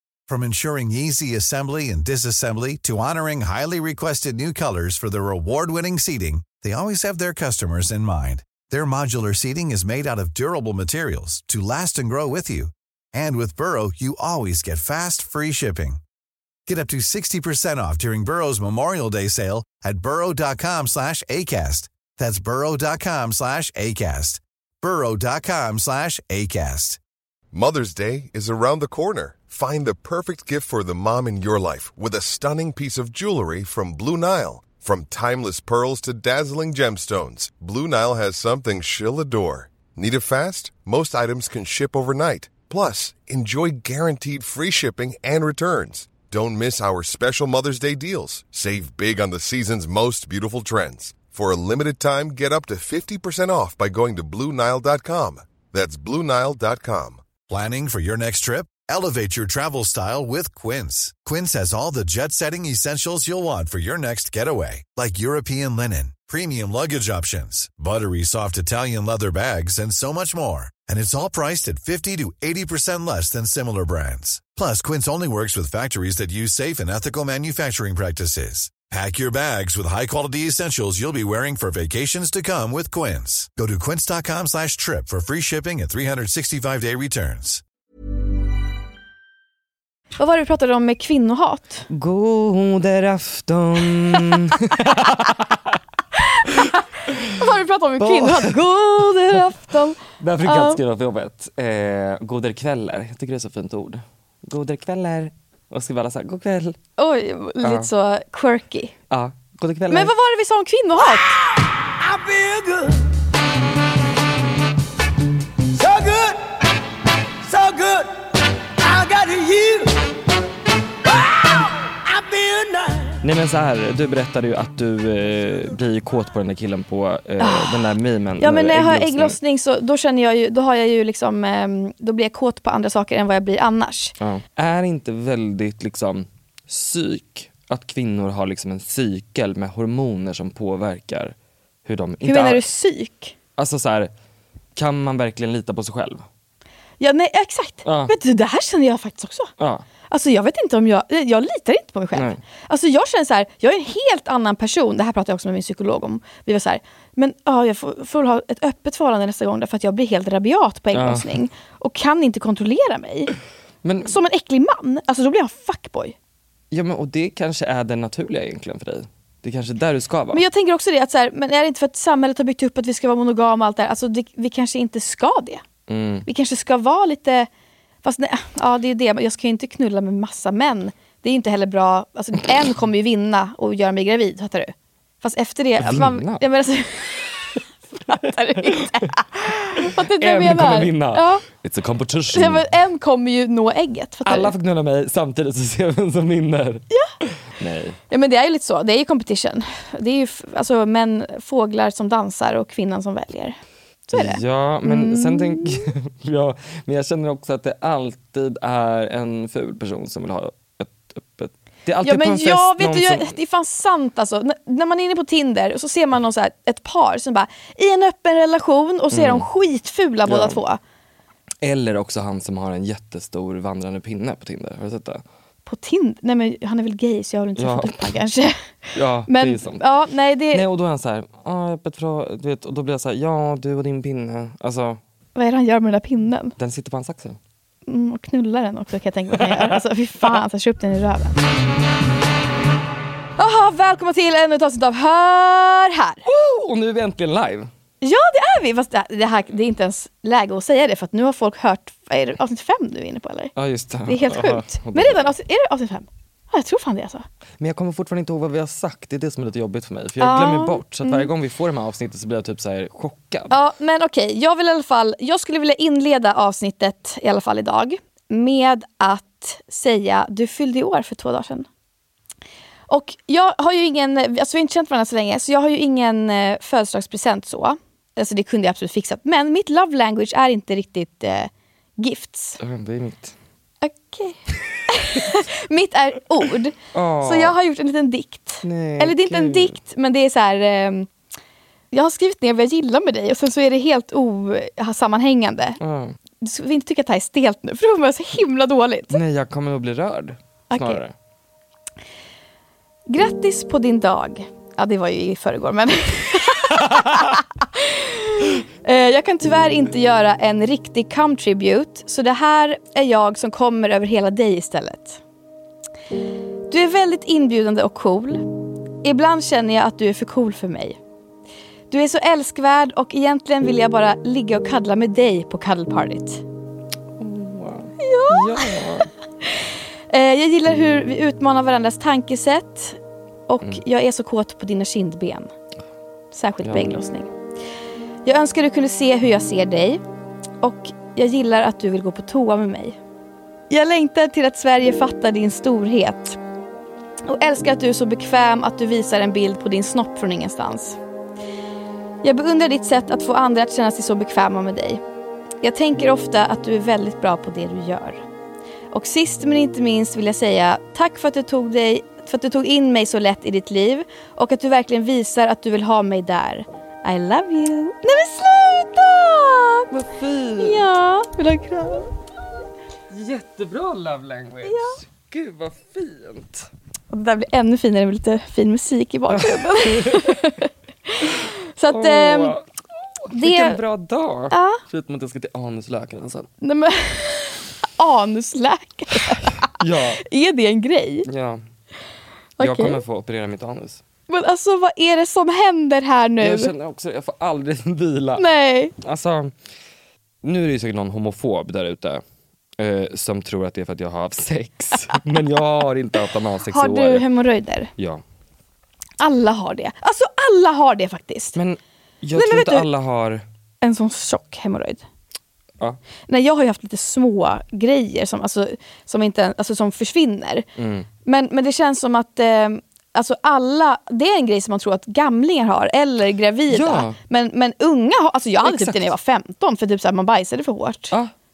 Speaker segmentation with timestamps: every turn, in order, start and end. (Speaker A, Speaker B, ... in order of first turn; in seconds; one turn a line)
Speaker A: 0.3-16.0
Speaker A: 16.7-27.0
Speaker B: 27.5-57.2
Speaker A: 57.5-87.6
Speaker C: 90.2-91.9
Speaker D: 91.9-95.5
Speaker C: 96.3-96.6
Speaker C: 97.3-100.8
Speaker D: 98.0-98.6
Speaker D: 100.1-106.8
Speaker C: 107.0-108.9
Speaker D: 107.6-107.9
Speaker D: 109.1-110.1
Speaker C: 109.9-111.4
Speaker E: 111.6-113.1
Speaker E: 115.7-116.4
Speaker E: 117.4-118.1
Speaker E: 118.8-120.0
Speaker E: 121.0-123.2
Speaker D: 123.2-129.3
Speaker C: 127.4-127.9
Speaker C: 128.4-134.1
Speaker D: 134.2-142.6
Speaker C: 142.2-143.3
Speaker D: 143.6-144.1
Speaker D: 144.8-146.2
Speaker C: 147.0-149.5
Speaker D: 147.8-148.1
Speaker D: 149.6-149.8
Speaker C: 150.1-163.3
Speaker D: 152.1-152.4
Speaker D: 160.9-161.4
Speaker D: 163.8-164.1
Speaker C: 164.1-166.1
Speaker D: 166.7-170.4
Speaker C: 170.3-175.6
Speaker D: 175.9-176.2
Speaker C: 176.2-177.5
Speaker C: 178.0-187.3
Speaker D: 185.8-186.4
Speaker C: 188.0-191.4
Speaker D: 188.1-189.1
Speaker D: 189.8-192.7
Speaker C: 192.3-194.5
Speaker D: 194.2-198.0
Speaker C: 198.1-203.6
Speaker C: 204.1-205.9
Speaker D: 204.1-213.3
Speaker C: 212.0-220.8
Speaker D: 219.1-219.5
Speaker D: 220.2-220.6
Speaker D: 221.6-225.2
Speaker C: 225.7-230.6
Speaker D: 227.6-228.1
Speaker D: 228.9-229.8
Speaker D: 230.5-235.0
Speaker C: 235.3-236.5
Speaker D: 236.6-237.4
Speaker C: 237.9-241.4
Speaker D: 239.4-239.8
Speaker C: 243.4-246.2
Speaker D: 246.2-247.7
Speaker C: 248.0-253.5
Speaker D: 253.6-255.3
Speaker C: 254.1-257.2
Speaker D: 257.6-263.5
Speaker C: 260.2-261.3
Speaker C: 263.5-271.7
Speaker C: 272.9-282.6
Speaker D: 282.6-283.3
Speaker C: 283.8-291.1
Speaker D: 286.9-287.6
Speaker D: 288.6-289.8
Speaker C: 291.9-295.8
Speaker D: 295.8-296.1
Speaker C: 296.4-299.2
Speaker D: 299.1-301.1
Speaker C: 300.7-301.0
Speaker C: 303.1-315.2
Speaker C: 316.7-318.5
Speaker C: 319.0-321.0
Speaker C: 321.9-326.4
Speaker D: 327.2-329.1
Speaker C: 328.0-328.9
Speaker C: 330.1-335.5
Speaker C: 336.3-337.3
Speaker D: 336.6-337.0
Speaker C: 338.2-340.0
Speaker C: 340.6-343.0
Speaker C: 343.7-346.4
Speaker C: 347.2-351.0
Speaker C: 352.2-355.0
Speaker C: 355.6-358.2
Speaker C: 358.9-369.9
Speaker D: 369.9-370.8
Speaker C: 370.6-372.1
Speaker D: 373.1-376.7
Speaker C: 374.6-375.0
Speaker C: 377.1-382.5
Speaker D: 379.3-380.4
Speaker D: 381.9-382.6
Speaker D: 383.3-386.5
Speaker C: 383.3-383.8
Speaker C: 384.5-384.8
Speaker C: 386.6-389.7
Speaker D: 389.6-390.2
Speaker C: 390.2-391.3
Speaker D: 391.3-391.6
Speaker C: 392.6-393.0
Speaker D: 392.6-394.0
Speaker C: 394.3-396.7
Speaker D: 396.4-398.4
Speaker C: 398.4-398.9
Speaker D: 399.0-399.5
Speaker D: 400.4-402.2
Speaker D: 402.8-407.2
Speaker C: 406.7-407.9
Speaker C: 409.2-411.6
Speaker D: 411.6-413.4
Speaker C: 412.3-412.9
Speaker C: 413.8-415.0
Speaker C: 416.3-420.6
Speaker D: 420.8-421.1
Speaker C: 421.2-431.1
Speaker D: 426.7-427.2
Speaker D: 428.6-429.1